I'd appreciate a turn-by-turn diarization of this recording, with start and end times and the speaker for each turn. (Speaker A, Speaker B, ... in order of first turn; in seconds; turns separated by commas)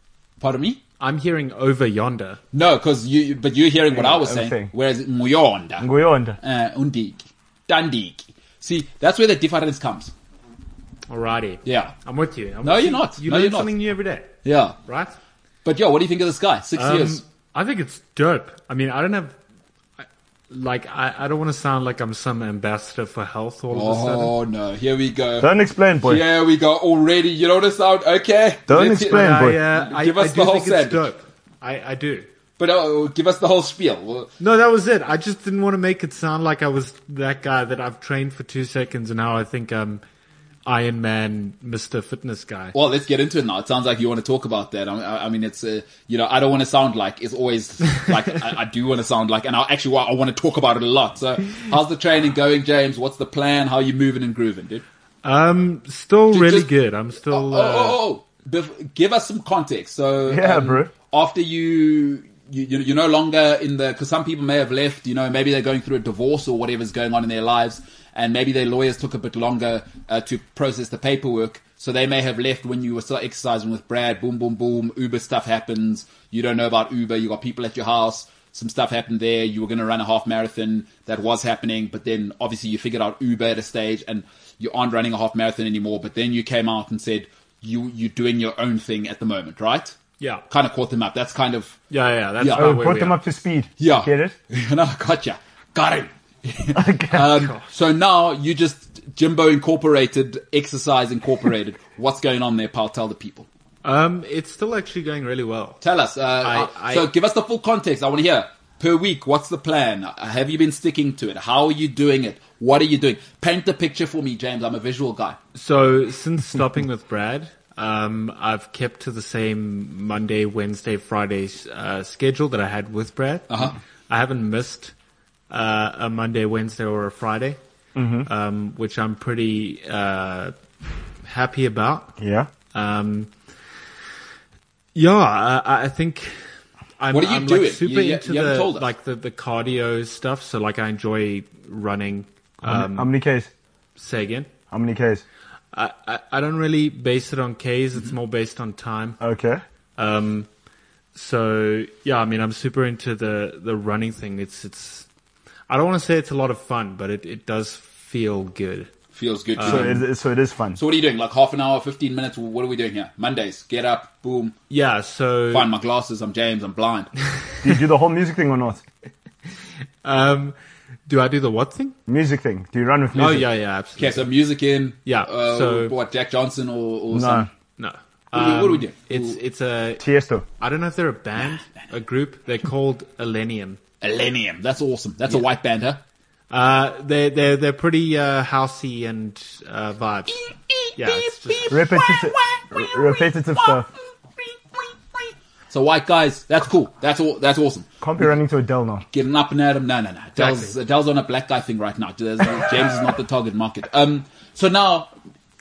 Speaker A: 0.4-0.8, Speaker B: 1.0-2.4, Speaker A: 2.5-5.9, Speaker C: 3.9-4.7, Speaker C: 5.8-6.4, Speaker A: 6.4-10.1, Speaker B: 11.1-14.3, Speaker A: 11.6-11.9, Speaker A: 12.6-13.7, Speaker A: 14.4-14.8, Speaker B: 14.8-15.2, Speaker A: 15.6-17.2, Speaker B: 16.8-19.4, Speaker B: 20.5-24.3, Speaker A: 23.7-25.5, Speaker C: 25.4-26.2, Speaker A: 26.0-31.1, Speaker C: 28.7-29.6, Speaker B: 29.1-32.3, Speaker A: 32.6-34.3, Speaker B: 34.4-40.0, Speaker B: 40.6-42.7, Speaker A: 42.7-54.8, Speaker B: 55.2-58.0, Speaker A: 56.3-56.7, Speaker A: 57.3-90.0, Speaker C: 60.3-60.9, Speaker A: 90.5-91.8, Speaker B: 91.9-93.2, Speaker A: 92.4-92.7, Speaker C: 92.5-94.3, Speaker A: 93.8-103.5, Speaker C: 96.7-97.4, Speaker B: 97.3-97.6, Speaker B: 103.8-105.8, Speaker A: 105.8-115.4, Speaker B: 106.4-107.0, Speaker B: 115.5-124.9, Speaker A: 123.5-123.8, Speaker B: 125.5-127.6, Speaker C: 128.0-128.3, Speaker B: 128.2-130.5, Speaker B: 131.2-132.1, Speaker C: 132.2-132.5, Speaker B: 132.7-133.3, Speaker B: 134.9-136.4, Speaker B: 137.0-143.1, Speaker A: 137.1-138.9, Speaker C: 142.6-143.5, Speaker B: 144.0-144.5, Speaker C: 144.7-145.2, Speaker B: 145.7-149.2, Speaker C: 149.2-149.6, Speaker B: 150.0-150.5, Speaker B: 151.1-155.1, Speaker B: 155.7-158.9, Speaker A: 159.1-160.0, Speaker B: 159.6-160.0, Speaker C: 159.6-160.8, Speaker A: 160.8-164.6, Speaker B: 164.7-165.7, Speaker A: 165.5-167.1, Speaker C: 167.6-168.8, Speaker B: 170.0-170.5, Speaker B: 171.1-171.9, Speaker C: 172.1-173.5, Speaker B: 173.1-174.2, Speaker A: 174.0-177.5, Speaker B: 175.1-175.9, Speaker C: 177.1-177.5, Speaker B: 177.8-180.0, Speaker A: 178.3-179.3, Speaker C: 180.0-180.4, Speaker B: 180.6-183.8, Speaker A: 184.0-186.0, Speaker B: 186.5-190.4, Speaker A: 190.3-193.8, Speaker B: 190.9-191.7, Speaker C: 191.7-193.9, Speaker A: 194.4-197.9, Speaker C: 198.0-199.1, Speaker A: 199.1-205.1, Speaker B: 200.4-200.7